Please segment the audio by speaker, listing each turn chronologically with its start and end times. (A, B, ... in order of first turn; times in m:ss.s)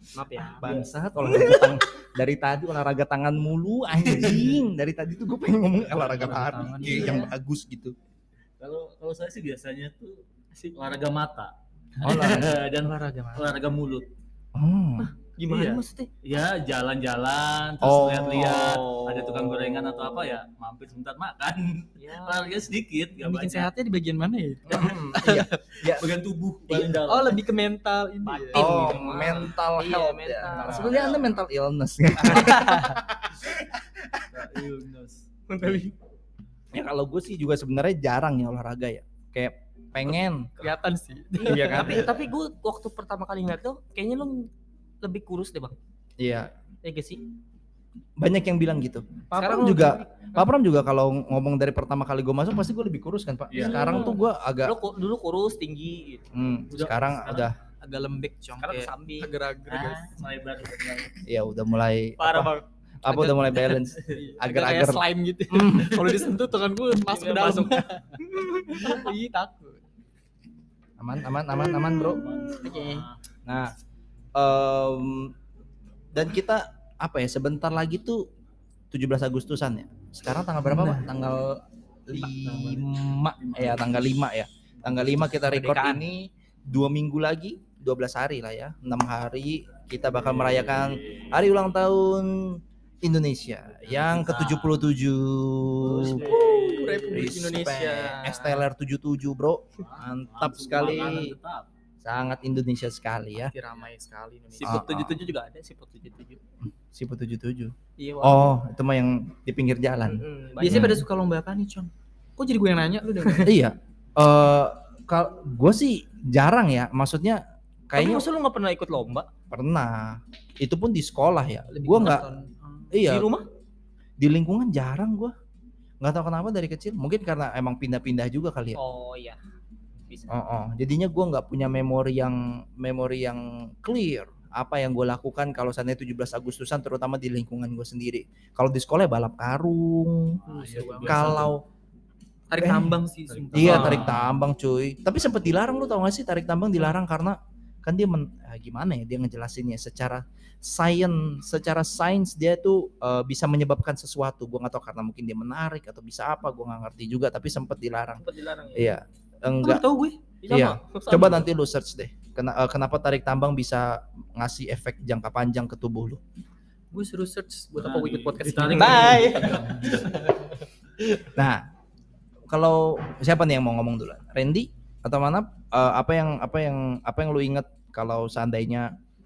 0:00.2-0:00.7 A
0:00.5-0:08.0 B
0:00.6-0:00.9 C
0:01.3-0:01.8 A
0:04.0-0:04.6 C
0:05.8-0:07.1 C
0:06.2-0:07.3 D
0:08.6-0:10.2 C
0:10.7-0:14.1 C
0:12.0-0:12.6 B
0:12.2-0:13.5 D
0:14.6-0:15.1 B
0:15.0-0:16.1 A
0:15.4-0:23.7 C
0:17.8-0:18.7 B
0:18.3-0:20.2 A
0:22.0-0:22.6 A
0:23.2-0:25.8 D
0:24.7-0:27.4 C
0:24.8-0:26.1 B
0:26.7-0:29.2 D
0:28.3-0:31.2 A
0:28.5-0:34.3 B
0:30.5-0:30.9 D
0:30.5-0:31.4 C
0:32.3-0:33.0 D
0:34.3-0:35.3 C
0:35.5-0:35.9 A
0:36.7-0:40.6 B
0:40.6-0:42.0 D
0:41.4-0:42.1 B
0:41.6-0:44.5 A
0:45.0-0:45.8 A
0:46.2-0:46.5 B
0:46.8-0:47.2 A
0:48.2-0:54.8 B
0:49.4-0:50.3 A
0:53.5-0:54.1 C
0:53.6-0:56.2 A
0:56.3-0:57.6 B
0:56.7-0:57.6 C
0:57.8-1:00.2 D
0:58.6-0:59.3 A
0:59.7-1:01.2 C
1:01.3-1:02.5 B
1:02.2-1:02.6 A
1:03.0-1:06.3 B
1:03.1-1:09.8 D
1:07.0-1:07.9 A
1:11.0-1:12.3 B
1:11.8-1:13.2 C
1:12.5-1:13.1 D
1:13.4-1:13.7 B
1:14.4-1:15.3 B
1:16.1-1:18.3 B
1:18.9-1:36.2 B
1:20.6-1:21.1 D
1:22.3-1:24.0 C
1:24.8-1:25.2 C
1:25.3-1:26.0 A
1:30.1-1:31.5 C
1:33.8-1:34.9 C
1:35.8-1:37.1 C
1:35.9-1:38.6 A
1:36.2-1:38.0 D
1:37.1-1:41.4 B
1:39.8-1:41.7 C
1:42.0-1:43.5 B
1:43.4-1:44.8 D
1:44.6-1:46.4 A
1:44.6-1:45.2 B
1:46.6-1:51.0 B
1:48.0-1:48.5 A
1:50.1-1:51.0 A
1:50.6-1:53.5 D
1:53.4-1:58.3 B
1:58.0-1:59.3 A
1:59.5-2:02.2 B
2:01.7-2:02.9 D
2:02.9-2:03.4 B
2:03.0-2:03.5 A
2:04.2-2:05.3 B
2:06.0-2:08.8 B
2:08.8-2:09.4 A
2:10.1-2:10.4 A
2:10.3-2:20.4 B
2:20.5-2:21.5 D
2:20.5-2:21.5 C
2:21.0-2:21.6 B
2:22.5-2:24.2 D
2:22.6-2:23.0 B
2:23.3-2:24.3 C
2:23.5-2:39.8 B
2:38.2-2:38.9 A
2:39.6-2:40.2 D
2:40.4-2:41.4 A
2:40.5-2:46.2 B
2:46.9-2:50.6 D
2:47.8-2:50.1 C
2:48.7-2:49.2 A
2:51.3-2:51.7 B
2:52.5-2:58.9 B